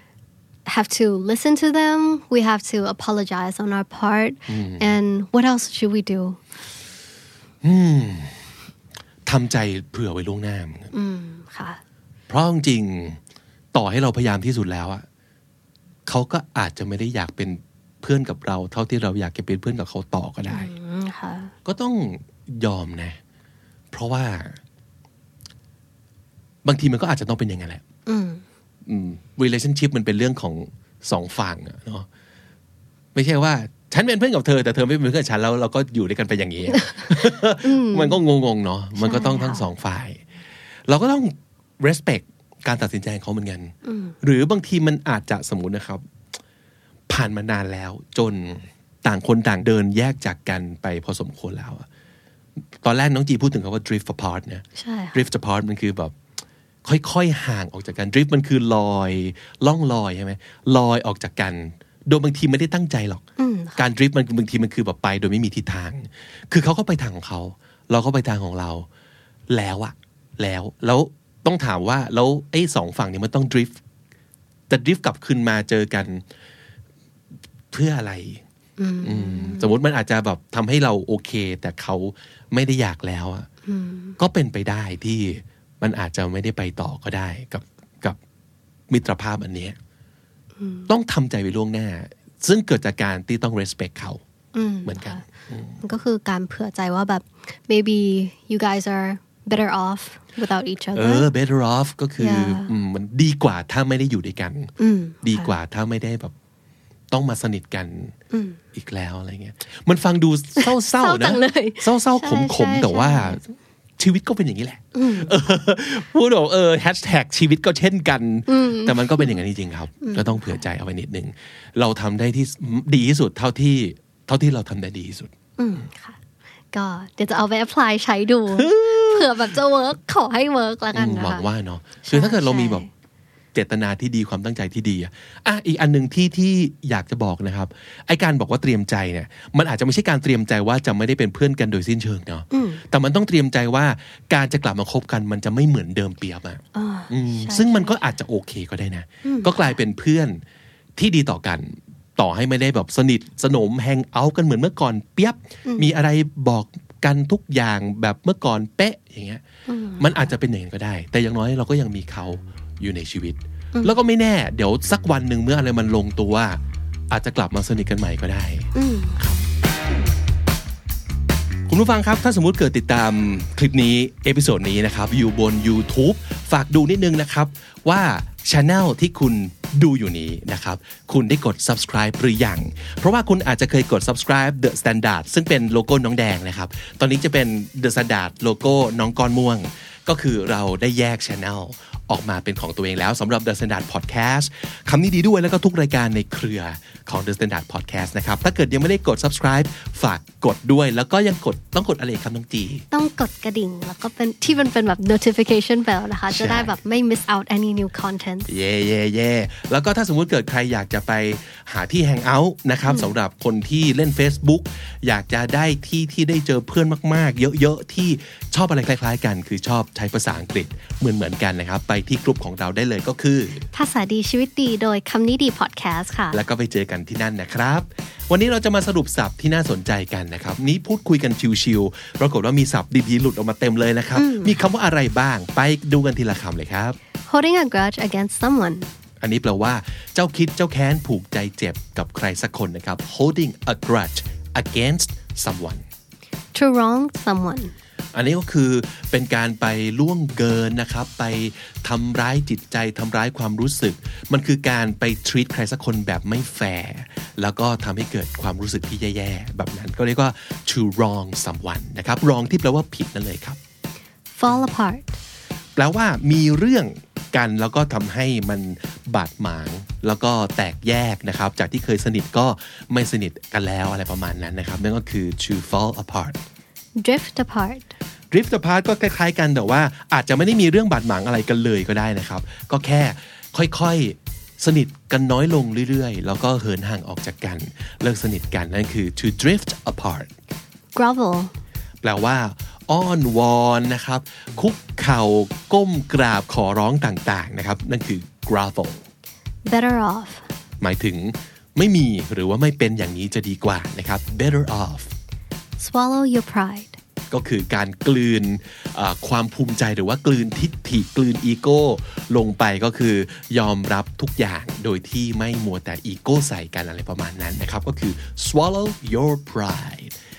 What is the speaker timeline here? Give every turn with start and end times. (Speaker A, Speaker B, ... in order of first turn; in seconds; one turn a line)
Speaker A: 0.6-6.4
Speaker B: 4.5-4.9
Speaker B: 7.6-8.4
Speaker B: 9.2-10.9
Speaker A: 10.9-11.8
Speaker B: 12.3-13.2
Speaker B: 13.7-15.0
Speaker B: 16.1-20.7
Speaker A: 20.5-21.5
Speaker B: 21.6-23.2
Speaker B: 23.9-24.6
Speaker B: 26.6-27.8
Speaker A: 28.1-28.4
Speaker B: 28.9-32.1
Speaker B: 33.1-40.2
Speaker A: 37.6-38.2
Speaker A: 39.0-39.6
Speaker B: 40.9-46.0
Speaker A: 43.8-44.1
Speaker B: 47.1-51.9
Speaker B: 52.8-56.1
Speaker A: 54.8-55.2
Speaker B: 56.8-63.2
Speaker A: 63.4-63.8
Speaker B: 63.8-68.9
Speaker B: 69.5-73.8
Speaker B: 74.7-76.2
Speaker B: 77.7-78.4
Speaker A: 78.8-79.7
Speaker B: 79.0-83.5
Speaker A: 83.7-84.2
Speaker B: 84.2-88.2
Speaker B: 88.9-89.8
Speaker A: 90.6-90.9
Speaker B: 90.9-94.2
Speaker A: 94.5-95.2
Speaker B: 94.8-95.8
Speaker A: 95.8-101.3
Speaker B: 100.9-104.7
Speaker A: 102.2-102.7
Speaker A: 104.8-105.5
Speaker B: 105.2-106.3
Speaker B: 107.1-108.1
Speaker A: 108.3-108.6
Speaker B: 108.7-113.4
Speaker A: 110.6-113.4
Speaker B: 114.0-125.3
Speaker A: 114.9-115.3
Speaker A: 118.5-119.4
Speaker A: 120.0-120.6
Speaker A: 125.6-126.2
Speaker A: 126.7-131.5
Speaker B: 128.5-129.5
Speaker B: 130.9-132.8
Speaker A: 132.1-132.9
Speaker B: 133.5-150.4
Speaker A: 142.5-142.8
Speaker A: 146.7-148.0
Speaker A: 149.2-149.8
Speaker B: 151.0-159.4
Speaker A: 155.7-155.9
Speaker A: 159.7-160.3
Speaker B: 160.0-166.6
Speaker B: 167.1-169.4
Speaker A: 168.7-169.4
Speaker B: 171.7-202.8
Speaker A: 202.9-208.5
Speaker B: 206.3-206.7
Speaker B: 208.5-223.7
Speaker A: 212.8-213.1
Speaker A: 223.7-226.4
Speaker B: 226.3-237.0
Speaker A: 234.2-234.6
Speaker A: 237.2-238.9
Speaker B: 239.2-245.8
Speaker A: 246.5-247.7
Speaker B: 248.1-263.6
Speaker A: 264.3-265.2
Speaker B: 265.8-276.4
Speaker A: 277.0-277.9
Speaker B: 278.3-290.3
Speaker A: 290.9-291.5
Speaker B: 292.0-299.0
Speaker A: 299.6-300.4
Speaker B: 300.8-305.1
Speaker A: 305.8-307.0
Speaker B: 307.3-320.1